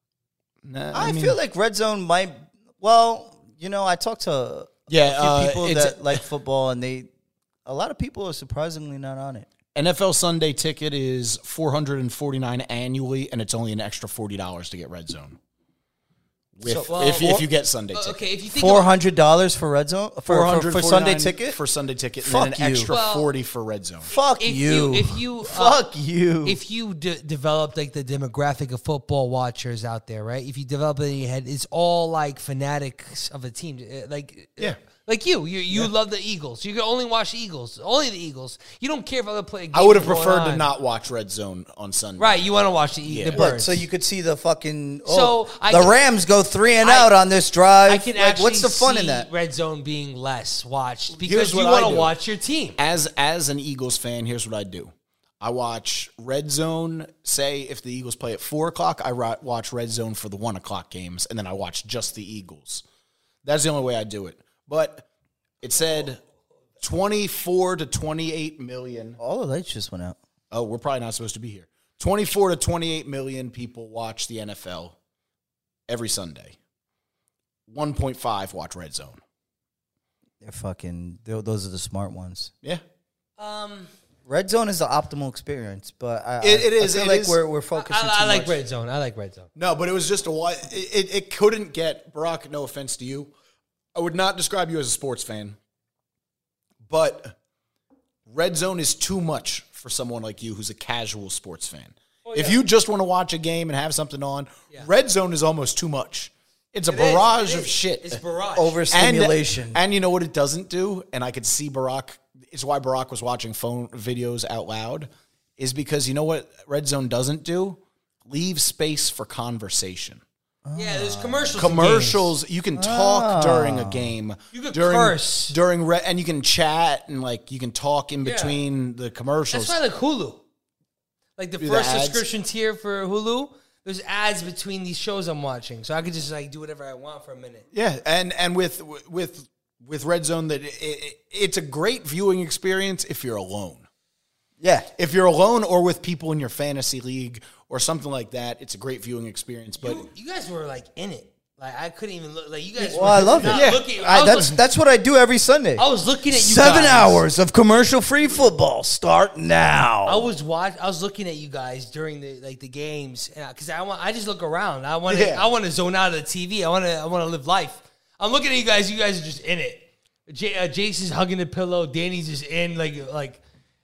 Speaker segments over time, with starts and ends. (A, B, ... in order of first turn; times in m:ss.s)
0:00.6-0:01.4 A
0:00.9-0:07.1 B
0:04.9-0:06.2 A
0:07.6-0:09.5 B
0:09.8-0:15.4 A
0:16.6-0:18.2 A
0:16.6-0:17.4 B
0:16.9-0:18.9 C
0:18.5-0:21.6 B
0:20.3-0:24.1 A
0:22.2-0:22.9 B
0:22.9-0:23.3 C
0:24.1-0:26.6 B
0:24.4-0:25.8 C
0:26.4-0:40.7 C
0:39.7-0:42.5 A
0:42.2-0:43.8 C
0:43.1-0:43.4 A
0:43.3-0:49.3 B
0:45.1-0:46.0 C
0:46.8-0:47.1 C
0:47.9-0:52.8 C
0:51.1-0:52.1 A
0:52.8-1:02.8 A
1:03.4-1:05.1 A
1:05.6-1:06.2 A
1:06.8-1:09.2 A
1:09.2-1:10.2 B
1:10.5-1:15.0 A
1:15.9-1:16.6 A
1:17.7-1:19.2 A
1:20.4-1:22.5 B
1:23.4-1:23.9 C
1:24.3-1:28.6 B
1:26.4-1:27.4 A
1:27.8-1:29.5 C
1:29.6-1:33.3 A
1:34.0-1:35.6 A
1:36.9-1:37.3 A
1:38.3-1:48.2 A
1:42.3-1:42.6 C
1:46.9-1:48.8 C
1:48.6-1:49.8 B
1:48.9-2:00.2 A
2:00.6-2:01.6 B
2:00.8-2:02.3 C
2:01.6-2:09.8 A
2:02.8-2:04.1 B
2:04.5-2:05.6 C
2:08.2-2:08.6 C
2:09.5-2:10.4 C
2:11.4-2:17.6 C
2:11.6-2:12.2 A
2:17.7-2:23.8 A
2:24.6-2:24.9 B
2:25.0-2:30.1 A
2:29.8-2:34.6 C
2:32.8-2:40.3 B
2:33.4-2:33.9 A
2:35.8-2:37.2 C
2:40.0-2:53.4 C
2:45.1-2:45.4 A